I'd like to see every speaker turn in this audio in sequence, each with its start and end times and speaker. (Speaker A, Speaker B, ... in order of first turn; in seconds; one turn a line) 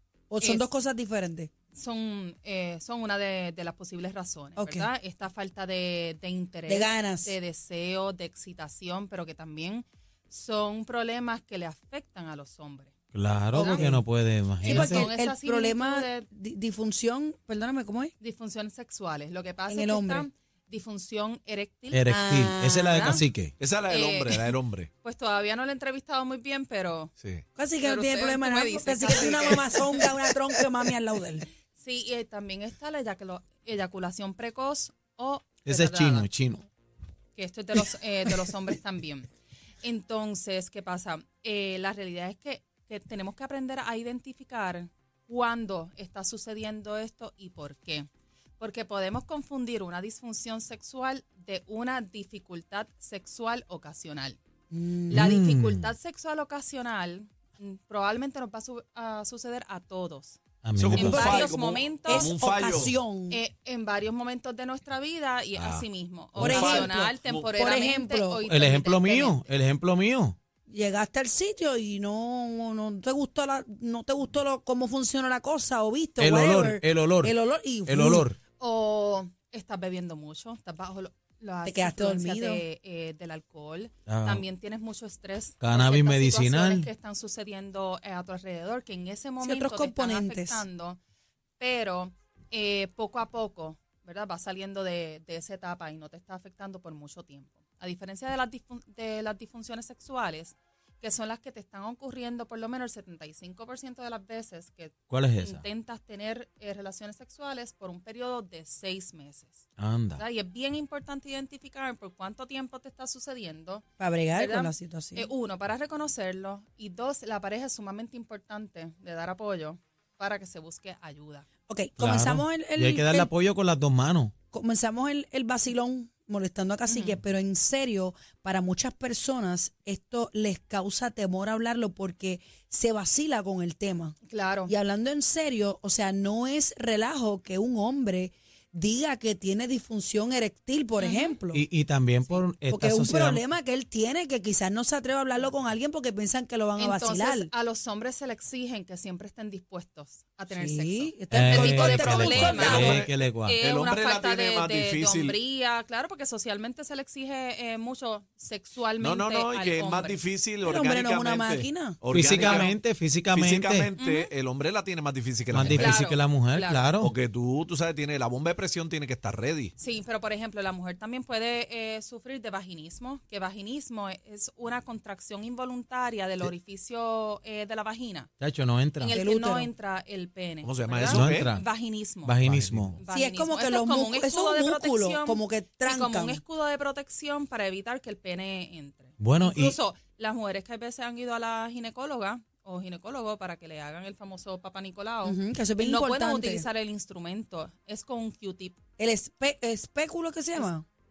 Speaker A: 0.3-1.5
Speaker B: 0.4-0.7
Speaker B: 1.7-12.9
Speaker A: 4.6-4.9
Speaker A: 6.7-7.3
Speaker C: 13.1-15.1
Speaker B: 13.5-13.9
Speaker A: 13.5-14.0
Speaker B: 14.6-16.3
Speaker A: 14.6-18.1
Speaker B: 18.2-23.2
Speaker A: 19.7-20.3
Speaker C: 21.9-23.5
Speaker A: 22.1-23.2
Speaker D: 23.6-24.9
Speaker B: 23.9-27.1
Speaker A: 27.6-31.5
Speaker B: 27.8-30.1
Speaker B: 31.8-36.3
Speaker C: 35.6-36.6
Speaker B: 37.4-39.3
Speaker B: 39.8-48.1
Speaker B: 48.6-54.4
Speaker A: 54.7-55.3
Speaker C: 55.1-55.9
Speaker B: 55.1-60.4
Speaker C: 60.6-61.4
Speaker D: 60.7-63.0
Speaker B: 60.9-62.3
Speaker A: 61.0-63.4
Speaker B: 63.3-69.5
Speaker D: 65.5-67.5
Speaker A: 66.4-68.4
Speaker C: 68.5-70.4
Speaker A: 70.7-78.3
Speaker C: 76.2-77.3
Speaker C: 77.8-78.4
Speaker B: 78.6-91.0
Speaker A: 81.6-82.6
Speaker C: 84.0-84.4
Speaker C: 85.6-86.9
Speaker A: 89.4-90.7
Speaker B: 91.6-109.6
Speaker C: 105.1-105.6
Speaker C: 109.8-110.2
Speaker B: 110.1-121.4
Speaker A: 114.0-115.3
Speaker A: 121.7-123.3
Speaker C: 122.0-124.3
Speaker A: 124.5-141.6
Speaker B: 126.9-127.2
Speaker B: 134.2-134.7
Speaker B: 141.0-141.4
Speaker C: 141.5-143.4
Speaker A: 142.7-147.5
Speaker B: 146.8-160.2
Speaker A: 150.5-153.1
Speaker C: 151.3-153.6
Speaker D: 152.0-153.1
Speaker D: 153.6-155.4
Speaker D: 159.0-162.8
Speaker A: 160.6-162.0
Speaker C: 162.1-163.9
Speaker B: 162.4-162.7
Speaker D: 163.3-166.0
Speaker B: 164.0-164.3
Speaker C: 165.5-167.1
Speaker B: 165.6-166.8
Speaker D: 167.0-169.7
Speaker B: 169.8-178.3
Speaker C: 178.4-179.2
Speaker B: 179.0-182.4
Speaker A: 179.1-179.7
Speaker D: 180.6-181.5
Speaker C: 181.0-181.7
Speaker C: 182.2-183.0
Speaker D: 182.4-183.0
Speaker B: 182.9-198.8
Speaker A: 183.1-186.4
Speaker C: 189.2-189.8
Speaker A: 195.2-196.7
Speaker A: 199.0-200.8